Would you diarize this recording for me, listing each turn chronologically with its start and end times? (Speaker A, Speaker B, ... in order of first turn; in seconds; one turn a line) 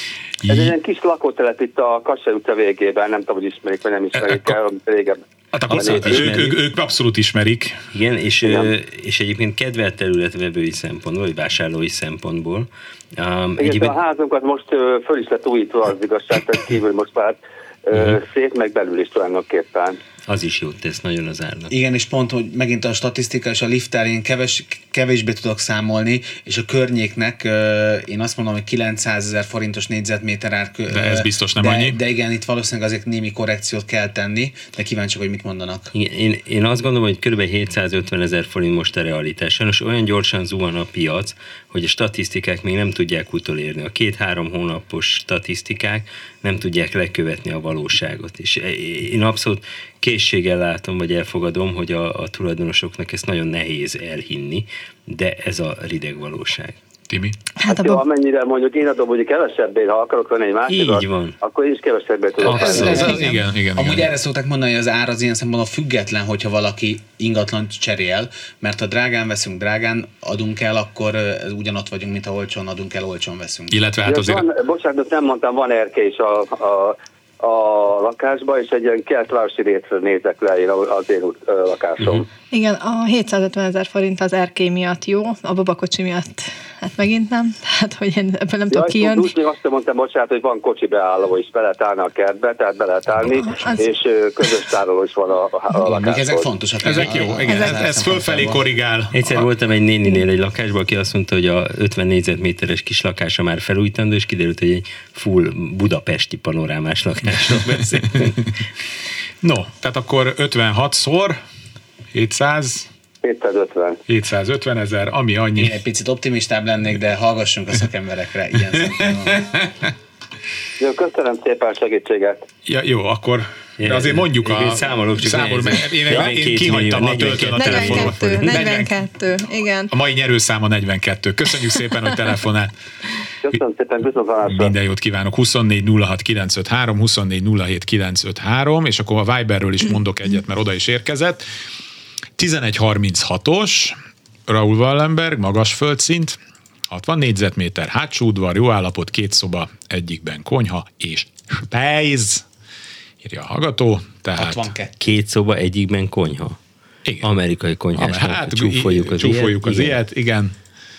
Speaker A: 0.4-0.8
Speaker B: 0.5-6.3
Speaker A: 4.2-4.6
Speaker A: 5.5-7.8
Speaker C: 5.7-6.5
Speaker C: 7.9-14.0
Speaker B: 8.4-8.7
Speaker B: 13.6-20.0
Speaker C: 20.3-21.7
Speaker D: 21.7-35.9
Speaker A: 30.9-32.0
Speaker C: 35.9-56.8
Speaker A: 57.1-57.4
Speaker E: 57.6-58.0
Speaker B: 57.6-63.2
Speaker C: 60.7-61.4
Speaker C: 62.4-63.1
Speaker A: 62.5-64.1
Speaker D: 62.5-73.8
Speaker A: 73.7-74.5
Speaker B: 74.0-82.3
Speaker E: 82.5-89.3
Speaker B: 88.7-96.5
Speaker E: 93.4-93.8
Speaker D: 95.9-98.6
Speaker A: 96.8-99.5
Speaker E: 97.5-97.8
Speaker C: 99.1-108.4
Speaker A: 109.4-111.4
Speaker A: 112.1-112.9
Speaker B: 113.2-114.0
Speaker A: 114.1-115.8
Speaker D: 115.6-119.5
Speaker A: 119.4-119.7
Speaker B: 120.8-122.5
Speaker A: 122.7-128.9
Speaker C: 123.8-128.4
Speaker E: 127.5-129.9
Speaker A: 129.9-132.7
Speaker B: 133.4-134.8
Speaker A: 134.4-141.4
Speaker A: 142.4-144.0
Speaker A: 144.5-146.4
Speaker A: 146.9-152.4
Speaker A: 153.2-154.7
Speaker D: 154.3-155.0
Speaker C: 155.0-156.6
Speaker C: 157.2-160.0
Speaker A: 157.9-160.5